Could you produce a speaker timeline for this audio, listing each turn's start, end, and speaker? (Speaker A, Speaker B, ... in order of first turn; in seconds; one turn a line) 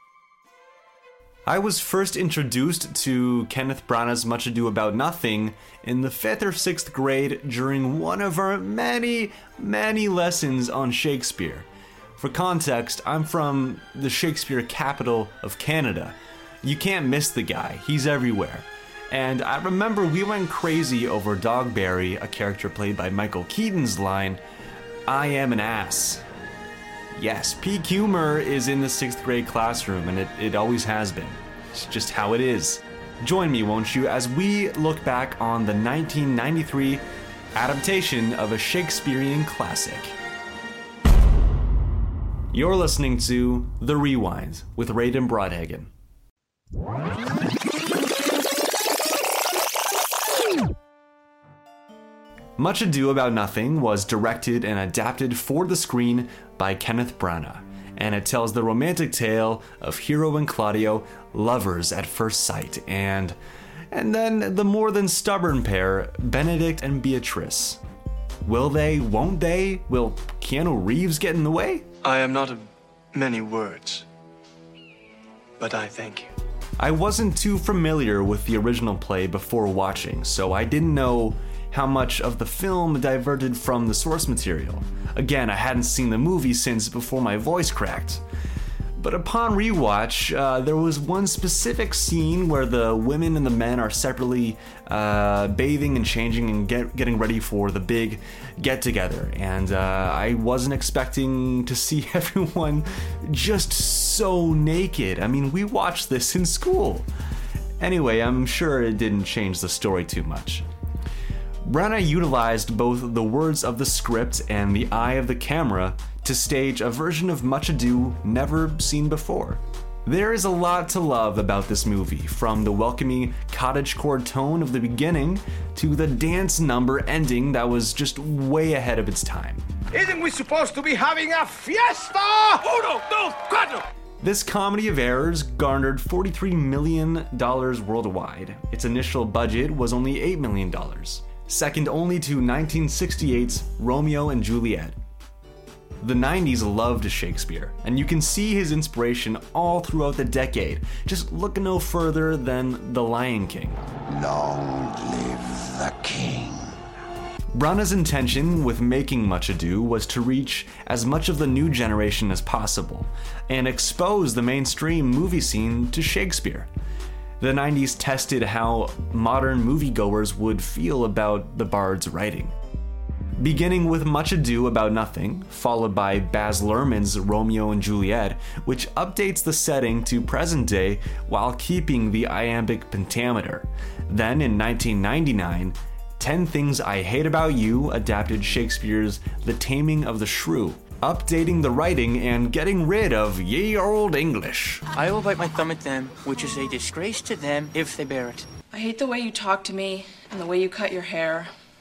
Speaker A: 1.5-11.7
Speaker A: 12.2-24.4
Speaker A: 25.1-26.2
Speaker A: 27.1-37.0
Speaker A: 37.6-40.1
Speaker A: 42.5-45.9
Speaker A: 52.6-63.4
Speaker A: 63.9-67.8
Speaker A: 68.5-71.9
Speaker B: 72.0-74.1
Speaker B: 75.6-76.3
Speaker A: 76.8-88.2
Speaker A: 89.0-107.1
Speaker A: 107.8-110.7
Speaker A: 111.7-129.6
Speaker C: 129.9-133.8
Speaker A: 134.2-144.9
Speaker A: 146.0-153.8
Speaker D: 154.1-156.6
Speaker A: 157.5-166.7
Speaker A: 167.4-172.5
Speaker A: 173.4-194.8
Speaker E: 195.0-198.4
Speaker F: 198.7-201.5